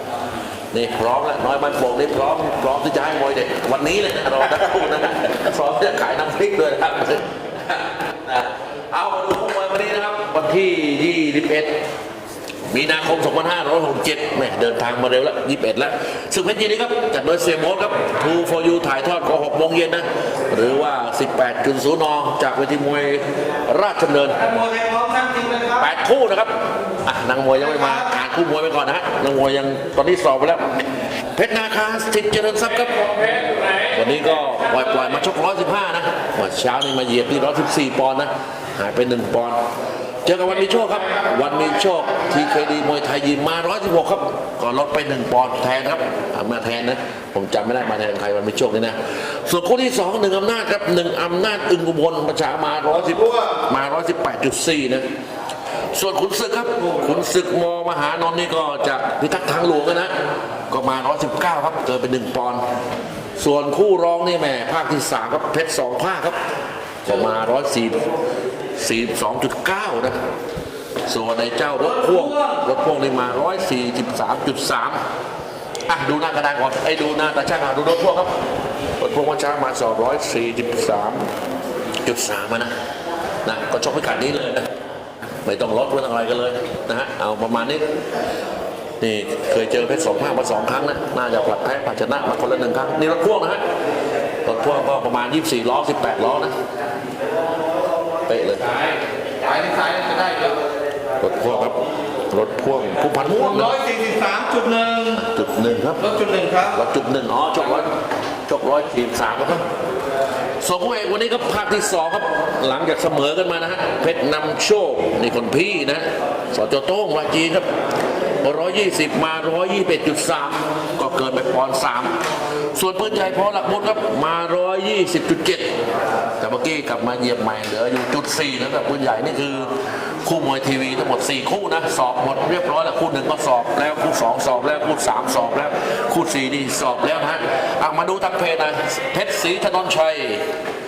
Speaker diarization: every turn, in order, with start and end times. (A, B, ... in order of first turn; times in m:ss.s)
0:00.7-0:11.7 A
0:12.7-0:24.6 A
0:24.8-0:25.6 B
0:25.6-0:26.5 A
0:27.0-0:30.6 A
0:31.3-0:39.6 A
0:40.2-0:55.0 A
0:55.9-1:00.1 A
1:00.7-1:02.6 A
1:03.4-1:06.4 A
1:07.0-1:08.0 A
1:08.8-1:10.2 A
1:11.0-1:15.0 A
1:15.9-1:18.3 A
1:19.0-1:21.3 A
1:22.0-1:22.7 A
1:23.4-1:24.7 A
1:25.4-1:27.8 A
1:29.0-1:33.6 A
1:34.4-1:36.5 A
1:38.2-1:38.8 A
1:39.4-1:40.6 B
1:41.2-1:41.8 A
1:42.3-1:43.9 A
1:43.8-1:45.1 B
1:45.1-1:47.9 A
1:46.1-1:46.7 B
1:48.5-1:49.6 A
1:50.6-1:57.6 A
1:58.4-2:02.2 A
2:02.7-2:05.7 A
2:06.4-2:09.7 A
2:10.2-2:20.4 A